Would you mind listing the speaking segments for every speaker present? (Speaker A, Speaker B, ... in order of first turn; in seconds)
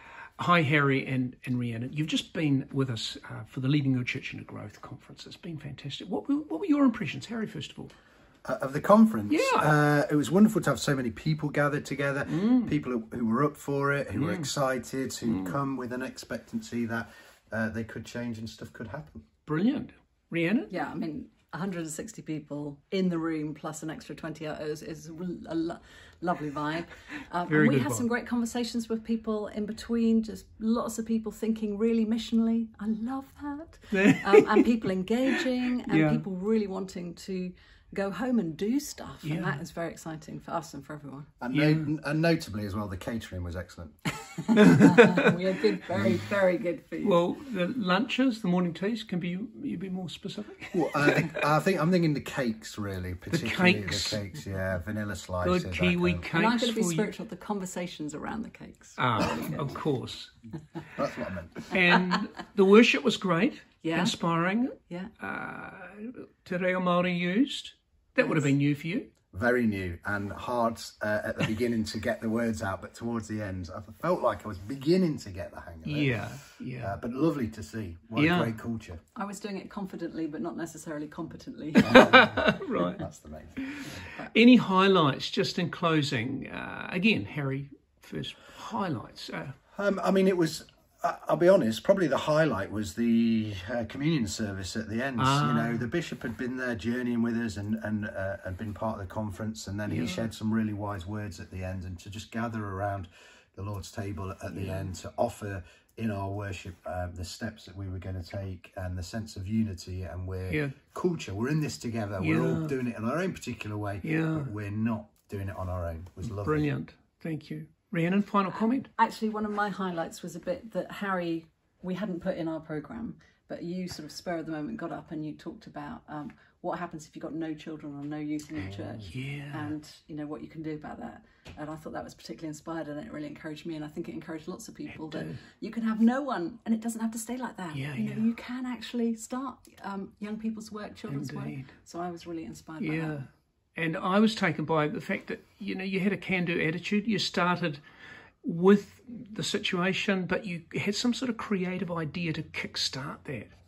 Speaker A: 0.4-7.9, 9.3-9.7, 12.3-12.7, 14.1-14.5, 15.2-15.6, 19.4-20.7, 27.5-28.1, 33.9-34.7, 35.8-36.2, 39.2-39.6, 41.5-41.9, 44.5-45.3, 47.0-51.4, 53.3-54.2, 55.4-57.1, 59.0-60.3, 61.7-69.1, 75.8-77.0, 78.2-78.5, 81.8-83.0, 83.6-89.5, 95.2-95.8, 99.9-100.2, 104.6-104.8, 110.5-110.7, 112.2-112.8, 114.0-114.5, 116.2-118.9, 129.1-129.7, 134.9-135.4, 137.7-138.3, 141.1-141.7, 142.8-147.8, 148.4-153.5
Speaker B: 8.4-19.3, 41.4-44.0, 45.9-46.2, 50.7-56.3, 61.0-61.7, 69.3-79.0, 81.8-83.9, 89.7-116.7, 128.6-129.1
Speaker C: 20.7-41.3, 44.2-47.2, 56.3-59.8, 62.0-62.2, 63.8-64.2, 68.2-68.5, 79.2-82.2, 84.0-84.3, 118.5-143.3